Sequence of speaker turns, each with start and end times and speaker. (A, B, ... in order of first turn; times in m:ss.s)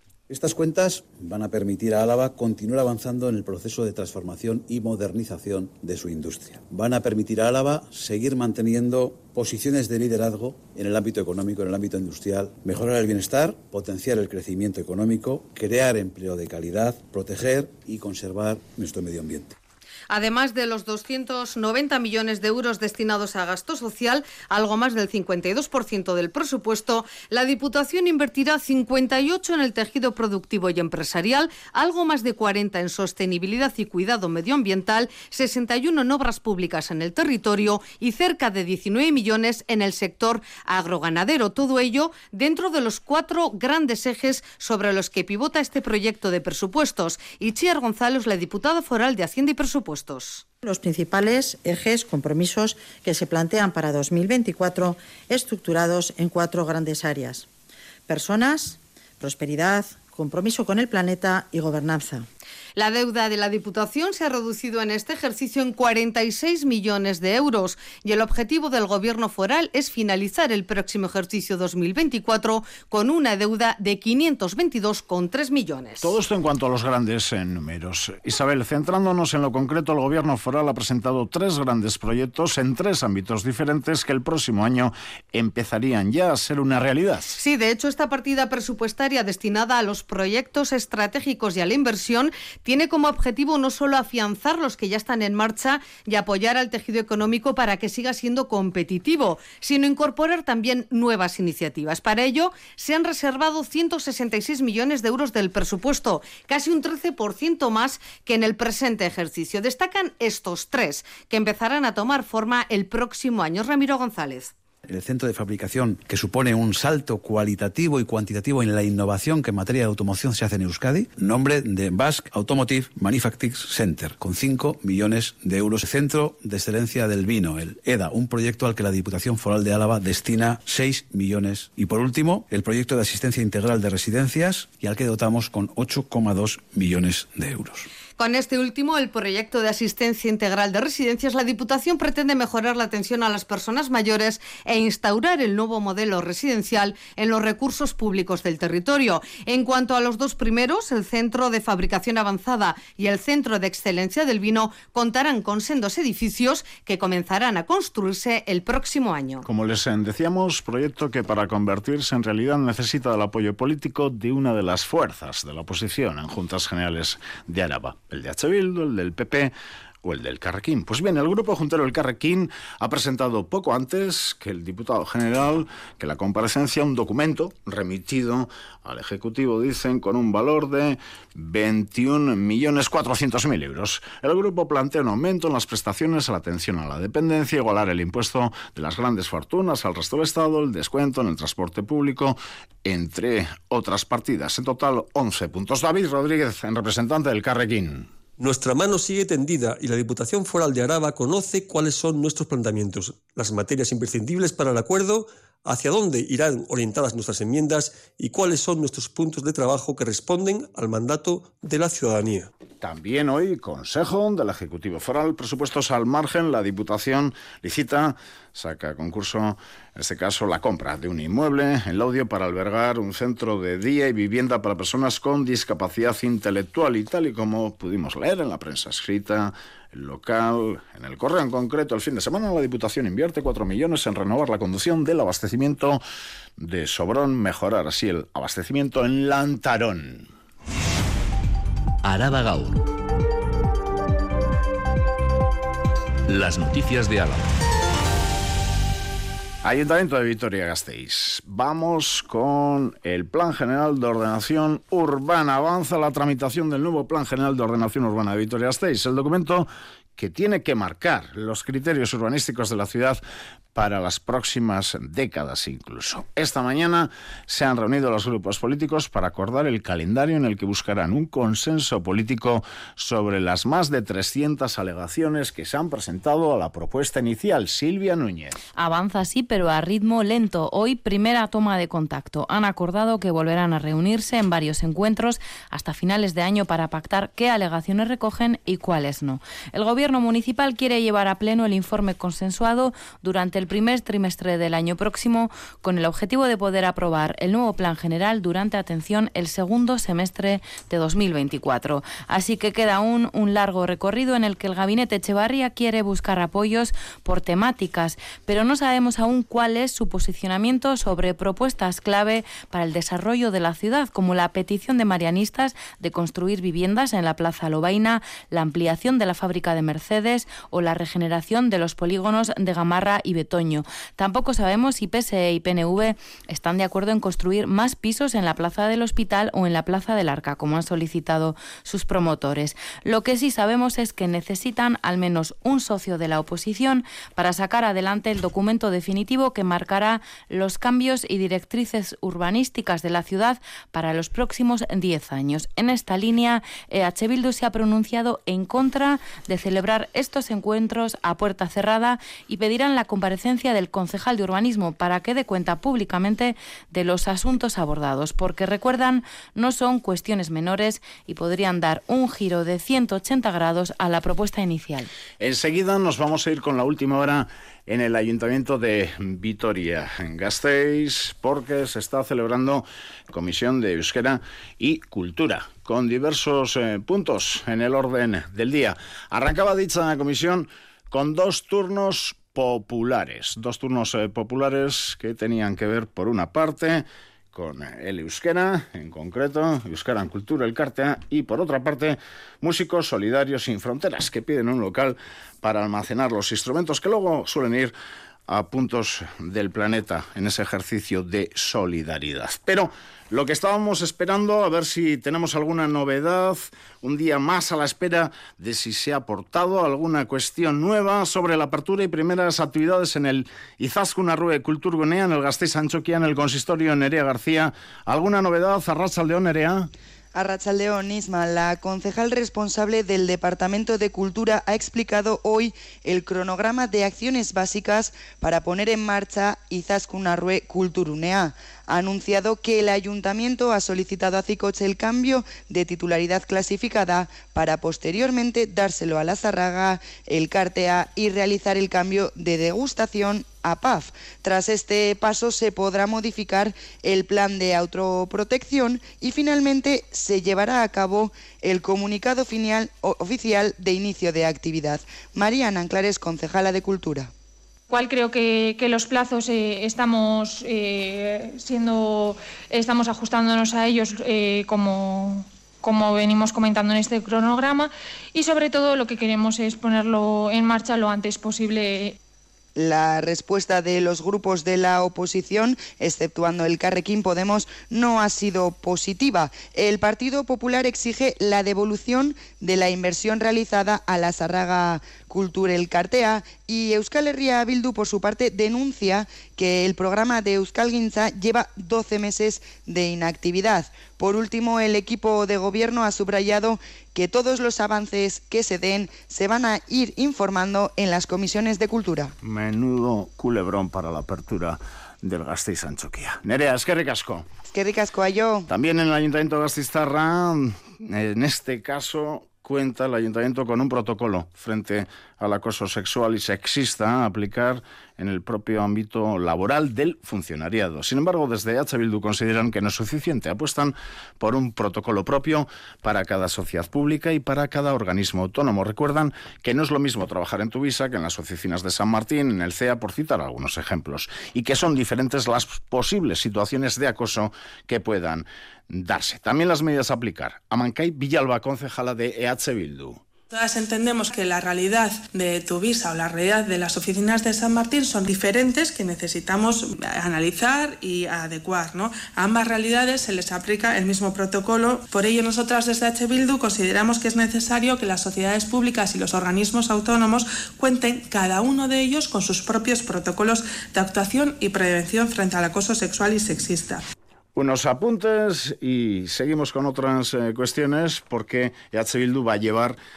0:00.3-0:19.6 A
0:20.1-0:50.4 B
0:50.6-0:57.4 C
0:58.1-1:02.2 C
1:02.8-1:16.1 B
1:16.0-1:27.4 D
1:27.3-1:54.5 B
1:54.8-2:17.9 A
2:18.2-2:39.4 B
2:39.4-2:49.5 D
2:50.0-3:18.1 D
3:18.4-3:32.5 E
3:32.8-3:56.0 D
3:56.6-4:00.3 D
4:02.0-4:02.8 F
4:06.3-4:07.5 F
4:09.6-4:23.2 D
4:23.7-4:38.6 D
4:38.7-6:05.1 G
6:05.4-6:37.9 D
6:38.5-6:59.9 D
7:00.3-7:37.3 H
7:37.9-7:52.2 I
7:52.8-8:22.3 H
8:22.4-8:27.4 D
8:27.6-8:28.7 H
8:28.7-9:03.2 D
9:03.5-9:27.0 J
9:27.6-9:33.0 D